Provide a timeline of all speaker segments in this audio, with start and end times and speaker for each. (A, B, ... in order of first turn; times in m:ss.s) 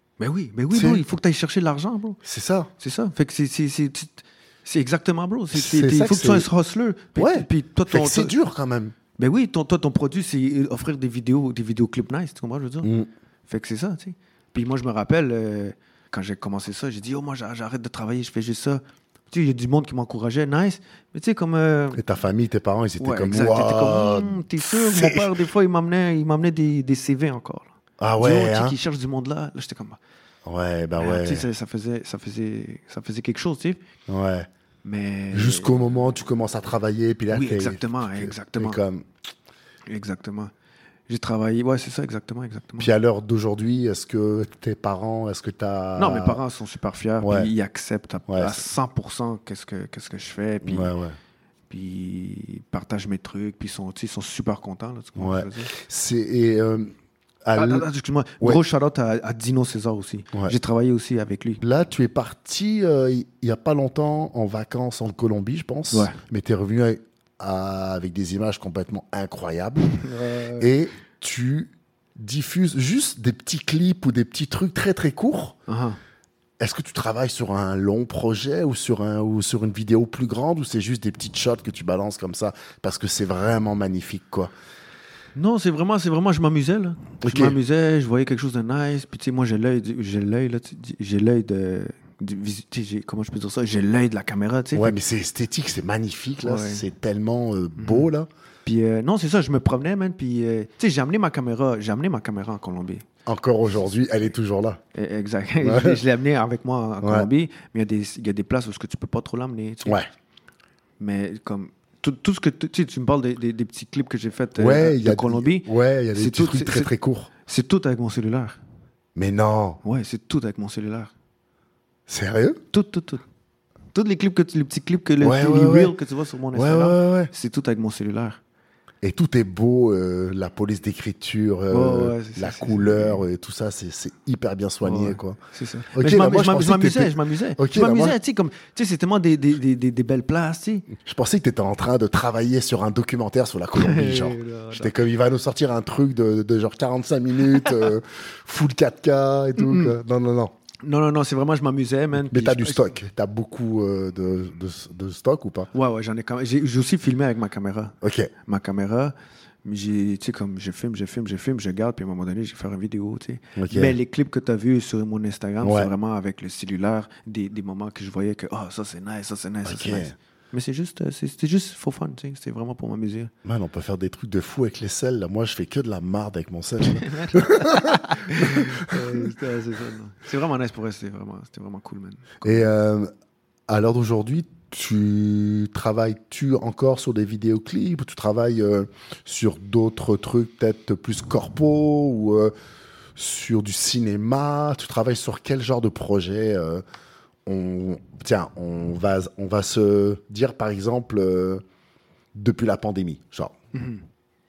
0:00.2-0:02.2 A
0:00.7-0:01.0 B
0:02.2-0:02.7 B
0:02.8-0:08.3 A
0:05.5-0:06.5 B
0:07.2-0:09.0 B
0:09.2-0:12.9 A
0:12.8-0:13.1 B
0:13.5-0:22.0 A
0:22.0-0:25.3 B
0:23.0-0:30.0 A
0:28.0-0:28.8 B
0:30.4-0:31.5 B
0:31.0-0:33.8 A
0:34.1-0:34.5 B
0:34.8-0:36.0 A
0:35.3-0:39.1 B
0:37.3-0:38.8 A
0:39.9-0:40.5 A
0:41.1-0:42.9 A
0:42.8-0:46.4 B
0:46.0-0:50.9 A
0:47.2-0:47.5 B
0:48.3-0:48.6 B
0:50.6-0:51.2 B
0:51.7-0:55.7 A
0:55.2-0:56.9 B
0:57.4-0:57.9 B
0:57.6-1:01.6 A
1:01.6-1:10.0 B
1:05.9-1:06.2 A
1:09.9-1:10.7 A
1:10.6-1:15.6 B
1:15.7-1:16.0 A
1:16.6-1:24.5 B
1:25.4-1:35.0 A
1:27.2-1:27.6 B
1:34.8-1:38.3 B
1:36.4-1:36.8 A
1:37.8-1:38.1 A
1:38.6-1:43.1 A
1:43.3-1:44.8 B
1:44.9-1:50.0 A
1:45.6-1:46.0 B
1:47.0-1:47.3 B
1:51.0-1:56.9 A
1:54.6-1:57.3 B
1:57.5-1:58.6 A
1:59.2-1:59.8 B
1:59.8-2:01.1 A
2:02.1-2:02.6 B
2:02.7-2:03.2 A
2:03.9-2:08.4 A
2:05.2-2:06.0 B
2:06.5-2:07.3 B
2:09.0-2:15.4 B
2:11.7-2:13.2 A
2:14.8-2:20.9 A
2:15.9-2:18.2 B
2:21.0-2:30.5 B
2:23.8-2:24.9 A
2:29.6-2:29.9 A
2:30.8-2:32.9 A
2:32.2-2:35.7 B
2:35.7-2:53.3 A
2:38.0-2:38.3 B
2:43.6-2:44.0 B
2:45.6-2:45.9 B
2:49.6-2:50.2 B
2:53.4-2:59.4 B
2:56.8-3:02.7 A
3:02.4-3:03.1 B
3:03.7-3:12.5 B
3:13.2-3:16.8 B
3:17.5-3:21.6 B
3:22.4-3:23.5 B
3:23.7-3:24.0 A